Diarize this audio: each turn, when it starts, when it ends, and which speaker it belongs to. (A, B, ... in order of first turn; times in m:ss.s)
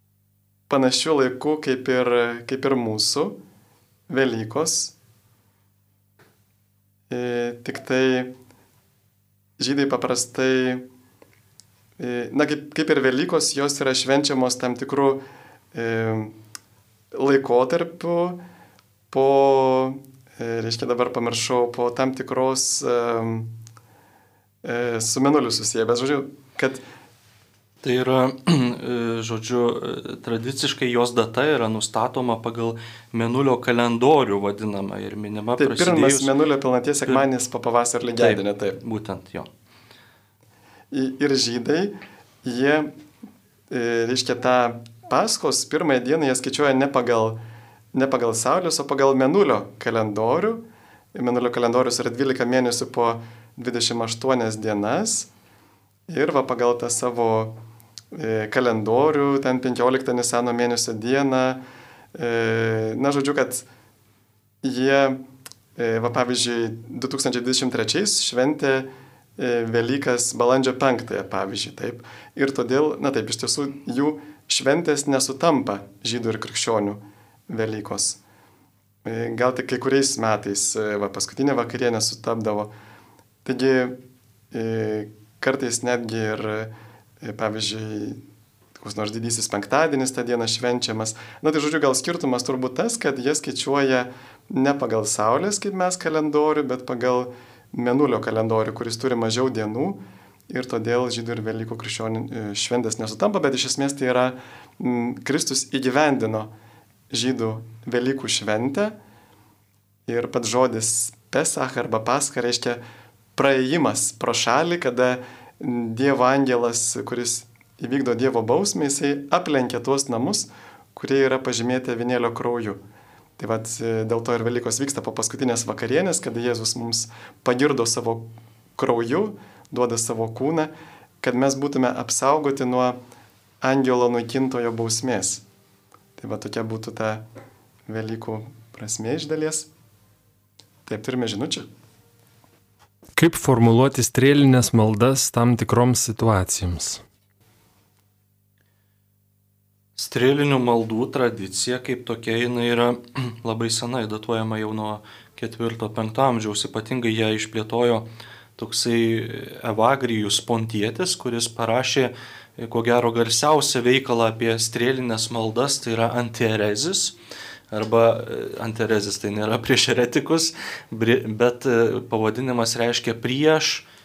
0:00.7-0:03.4 A
0:04.1-0:05.0 A
0:07.1-0:08.3 A
0:09.6-0:10.9 A
0:12.0-0:15.2 A
0:15.7-0:16.4 A
0:17.1-0:18.4 A
0:19.1-0:23.5 A
0:24.6-0:26.8 A
0:27.8-0:36.3 B
0:35.6-0:38.8 A
0:38.2-0:39.5 B
0:40.9-0:42.9 A
0:43.7-0:47.4 A
0:47.9-0:55.3 A
0:56.1-0:57.6 A
0:58.1-1:01.6 A
1:02.2-1:03.7 A
1:04.6-1:05.2 A
1:05.8-1:18.2 A
1:19.0-1:22.7 A
1:23.4-1:24.0 A
1:24.5-1:28.2 A
1:28.8-1:46.5 A
1:47.1-1:49.0 A
1:50.1-1:52.8 A
1:53.4-2:02.8 A
2:03.4-2:13.0 A
2:13.6-2:15.4 A
2:16.2-2:17.2 A
2:17.9-2:19.7 A
2:20.9-2:21.7 A
2:23.2-2:27.0 C
2:30.0-2:47.2 B
2:47.7-2:53.8 B